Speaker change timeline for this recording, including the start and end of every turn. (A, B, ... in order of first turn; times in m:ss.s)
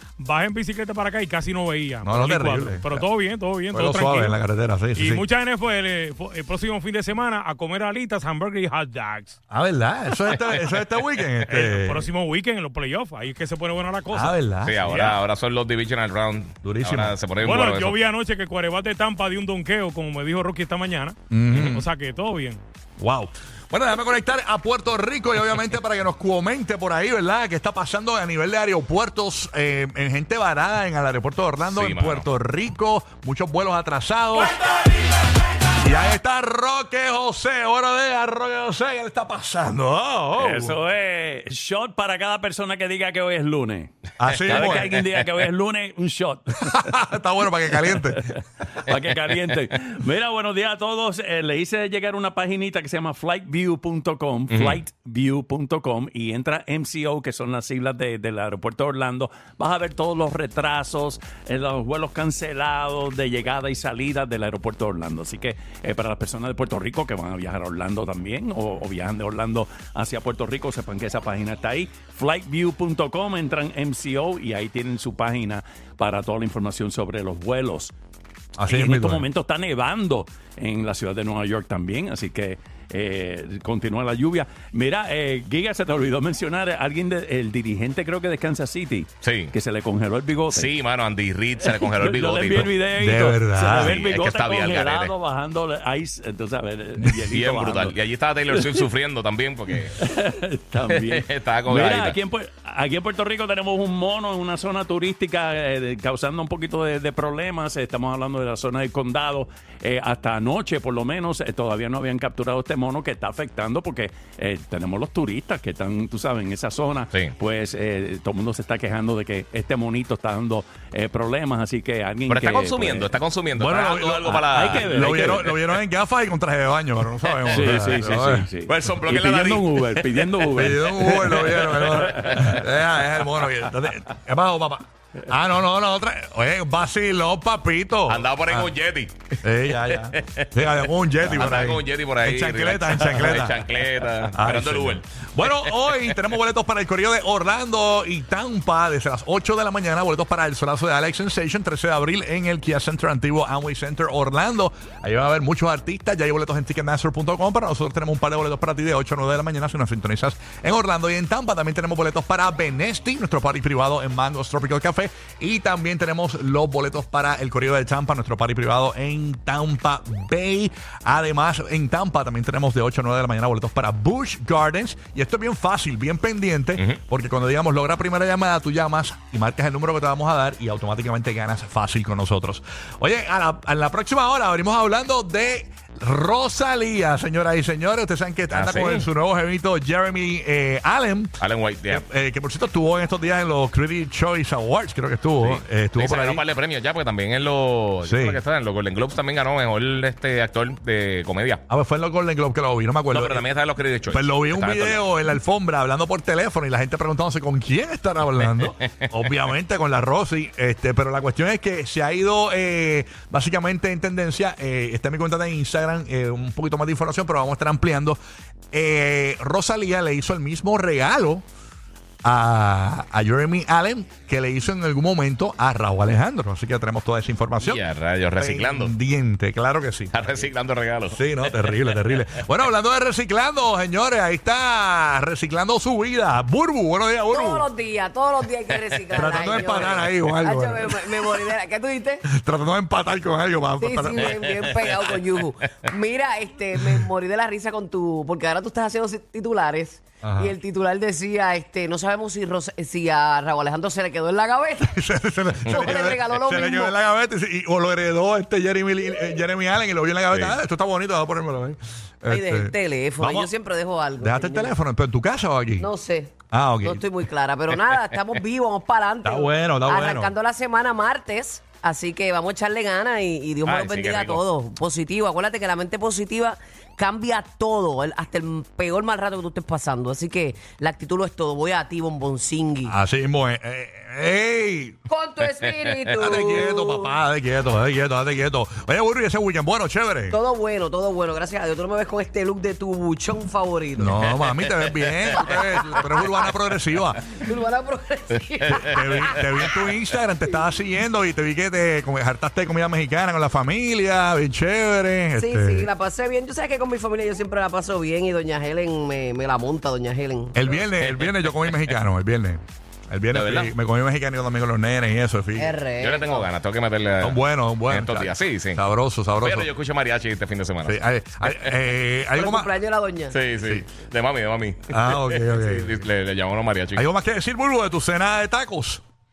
0:00.2-0:04.4 A
0:02.0-0:03.1 B
0:03.7-0:05.2 B
0:05.0-0:09.4 A
0:09.5-0:12.1 B
0:11.5-0:15.2 A
0:14.1-0:14.8 B
0:14.6-0:18.0 C
0:16.6-0:17.2 B
0:17.4-0:22.6 A
0:21.3-0:21.8 B
0:23.0-0:34.9 B
0:31.6-0:32.3 C
0:35.7-0:40.8 B
0:40.4-0:47.0 D
0:44.2-0:45.0 B
0:46.6-0:48.2 B
0:47.8-1:17.9 D
0:54.5-0:54.8 C
1:18.6-1:19.2 B
1:18.7-1:30.7 D
1:29.2-1:29.5 C
1:30.5-1:32.7 C
1:31.6-1:38.0 D
1:33.0-1:34.0 B
1:33.7-1:35.1 C
1:37.3-1:40.0 C
1:38.5-1:38.8 D
1:39.8-2:03.2 D
1:40.9-1:42.2 C
2:02.3-2:05.2 C
2:03.5-2:08.5 B
2:04.2-2:05.7 D
2:07.3-2:10.5 C
2:07.5-2:12.4 D
2:10.5-2:18.7 B
2:11.1-2:12.6 C
2:18.1-2:26.0 C
2:19.4-2:23.6 B
2:24.3-3:11.4 B
3:08.5-3:09.1 C
3:11.4-3:12.0 C
3:11.9-3:16.4 B
3:15.4-3:21.6 C
3:18.0-3:18.4 B
3:21.7-3:23.4 B
3:23.1-3:25.0 C
3:24.1-3:38.2 B
3:28.6-3:29.3 C
3:38.7-3:41.4 B
3:42.2-3:47.8 B
3:47.6-3:49.0 C
3:48.4-3:50.4 B
3:50.1-3:51.2 C
3:51.1-3:57.7 B
3:57.3-4:02.2 E
3:59.1-4:01.4 B
4:02.2-4:04.6 B
4:03.8-4:15.0 E
4:04.4-4:05.1 C
4:10.2-4:10.5 B
4:14.8-4:23.5 B
4:15.7-4:16.9 E
4:22.3-4:24.7 E
4:24.2-4:25.9 B
4:25.8-4:43.0 E
4:26.5-4:27.0 B
4:29.2-4:30.3 B
4:33.6-4:34.4 C
4:42.8-4:45.0 B
4:45.1-4:47.1 E
4:46.2-4:50.4 B
4:50.3-4:54.3 E
4:54.0-4:57.2 B
4:55.4-4:56.1 E
4:57.3-4:59.7 E
4:58.7-5:05.9 B
5:05.4-5:10.8 E
5:10.5-5:15.8 B
5:11.1-5:11.9 C
5:13.3-5:13.7 C
5:15.6-5:16.5 E
5:16.0-5:18.8 C
5:17.2-5:19.7 B
5:19.4-5:21.9 C
5:20.8-5:22.7 B
5:22.3-5:23.4 E
5:23.3-5:27.1 C
5:24.9-5:26.0 B
5:26.9-5:29.0 B